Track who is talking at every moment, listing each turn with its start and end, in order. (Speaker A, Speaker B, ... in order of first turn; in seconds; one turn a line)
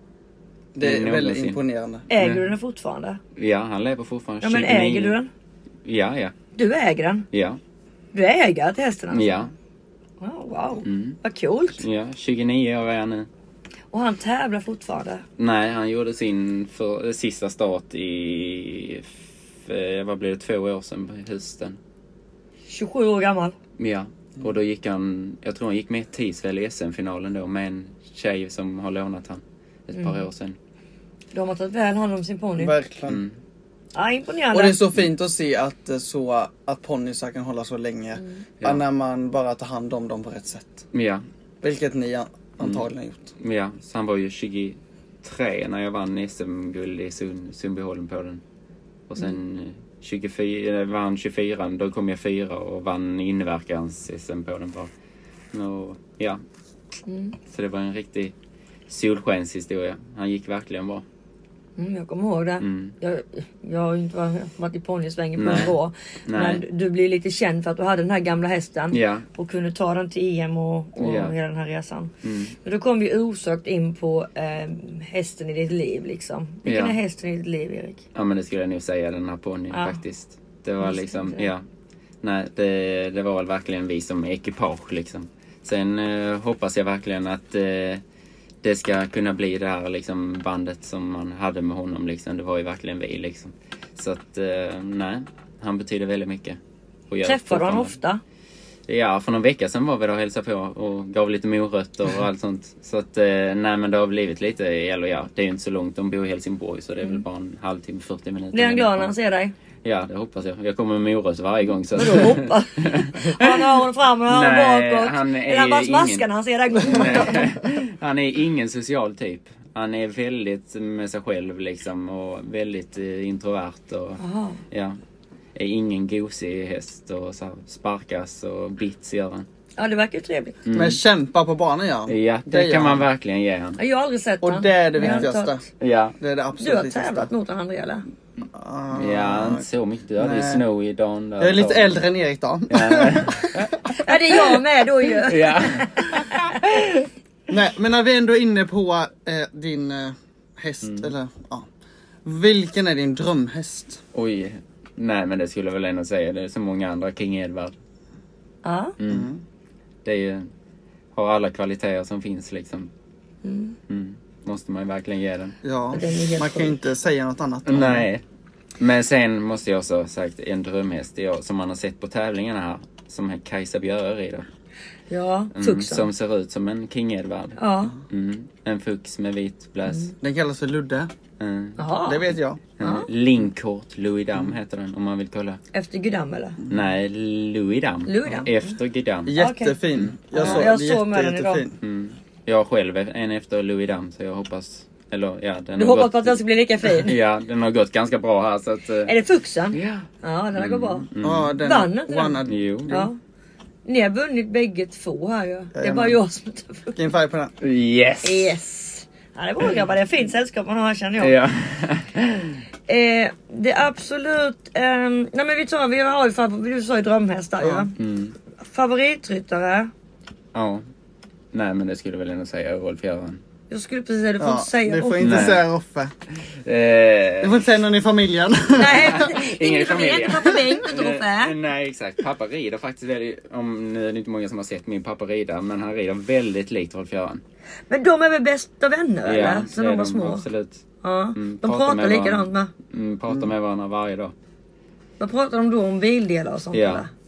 Speaker A: 0.7-2.1
Speaker B: 0.8-1.6
Speaker C: 2.1-3.2
Speaker B: 2.2-2.5
Speaker B: 3.4-5.2
Speaker C: 4.4-5.3
Speaker B: 5.8-6.3
Speaker C: 6.5-7.2
Speaker B: 7.3-7.6
Speaker C: 8.1-9.3
Speaker B: 9.1-9.5
Speaker C: 10.2-11.8
Speaker B: 10.8-11.2
Speaker B: 11.8-13.3
Speaker C: 13.9-15.2
Speaker B: 15.4-21.8
Speaker C: 22.7-23.6
Speaker B: 23.8-30.6
Speaker C: 31.3-32.8
Speaker A: 32.6-33.2
Speaker B: 33.1-33.3
Speaker C: 33.9-34.8
Speaker A: 34.5-40.9
Speaker B: 40.9-41.2
Speaker A: 41.6-43.3
Speaker B: 43.4-48.4
Speaker B: 49.1-54.9
Speaker B: 55.5-56.4
Speaker C: 57.1-57.3
Speaker B: 57.5-58.3
Speaker B: 58.9-61.0
Speaker C: 61.8-78.0
Speaker B: 62.6-62.9
Speaker B: 65.4-65.7
Speaker B: 66.3-66.6
Speaker B: 68.9-69.2
Speaker B: 71.0-71.3
Speaker B: 72.2-72.5
Speaker B: 76.7-77.0
Speaker B: 78.1-81.6
Speaker C: 79.7-80.0
Speaker C: 80.8-81.5
Speaker B: 82.2-88.0
Speaker B: 88.6-96.6
Speaker B: 97.1-97.9
Speaker C: 97.2-98.2
Speaker B: 98.9-109.1
Speaker C: 108.5-109.5
Speaker B: 109.8-125.0
Speaker C: 111.9-117.5
Speaker C: 124.2-124.6
Speaker B: 125.5-129.4
Speaker C: 129.8-130.6
Speaker B: 130.7-131.0
Speaker A: 130.7-133.1
Speaker B: 132.1-133.8
Speaker C: 133.8-135.6
Speaker A: 134.4-135.6
Speaker B: 135.0-135.3
Speaker B: 135.8-136.2
Speaker A: 136.2-137.3
Speaker C: 136.6-138.0
Speaker A: 138.5-139.6
Speaker B: 138.9-142.0
Speaker A: 140.2-140.6
Speaker A: 141.4-143.8
Speaker B: 142.7-144.0
Speaker C: 143.9-146.5
Speaker B: 145.2-147.1
Speaker A: 147.5-151.7
Speaker B: 150.8-151.1
Speaker A: 152.2-154.0
Speaker B: 154.1-157.7
Speaker C: 158.6-158.9
Speaker B: 159.0-159.3
Speaker A: 159.1-159.4
Speaker B: 160.0-160.5
Speaker B: 161.1-162.9
Speaker C: 163.4-163.8
Speaker B: 163.9-165.6
Speaker A: 165.6-168.1
Speaker C: 165.9-166.8
Speaker B: 167.7-168.2
Speaker B: 168.8-174.4
Speaker C: 175.1-176.1
Speaker B: 175.5-177.6
Speaker C: 177.6-177.9
Speaker B: 178.1-180.1
Speaker A: 180.2-181.1
Speaker B: 181.4-181.9
Speaker C: 181.8-182.2
Speaker A: 182.0-182.6
Speaker B: 182.8-185.6
Speaker C: 182.8-183.1
Speaker C: 185.7-186.6
Speaker B: 186.7-189.3
Speaker C: 188.1-188.5
Speaker A: 189.2-191.7
Speaker C: 189.3-189.8
Speaker B: 189.9-190.7
Speaker C: 190.3-191.7
Speaker B: 191.8-196.4
Speaker C: 195.8-197.2
Speaker B: 196.9-199.1
Speaker C: 199.1-201.1
Speaker B: 199.7-201.5
Speaker A: 201.2-203.1
Speaker C: 201.6-203.2
Speaker B: 202.4-203.0
Speaker C: 203.8-207.0
Speaker A: 205.7-206.2
Speaker A: 206.9-207.5
Speaker B: 207.6-208.5
Speaker C: 208.2-211.3
Speaker B: 211.2-212.6
Speaker C: 212.9-217.9
Speaker A: 217.6-217.9
Speaker B: 218.0-218.3
Speaker C: 218.6-219.9
Speaker B: 220.5-220.8
Speaker B: 221.5-223.4
Speaker C: 223.7-225.5
Speaker A: 224.4-226.1
Speaker B: 225.2-225.7
Speaker B: 226.5-227.7
Speaker A: 227.4-229.2
Speaker C: 228.7-231.5
Speaker B: 228.8-237.4
Speaker C: 237.9-240.4
Speaker B: 239.2-240.8
Speaker C: 241.0-242.7
Speaker B: 241.3-244.3
Speaker C: 245.2-247.1
Speaker B: 246.7-247.1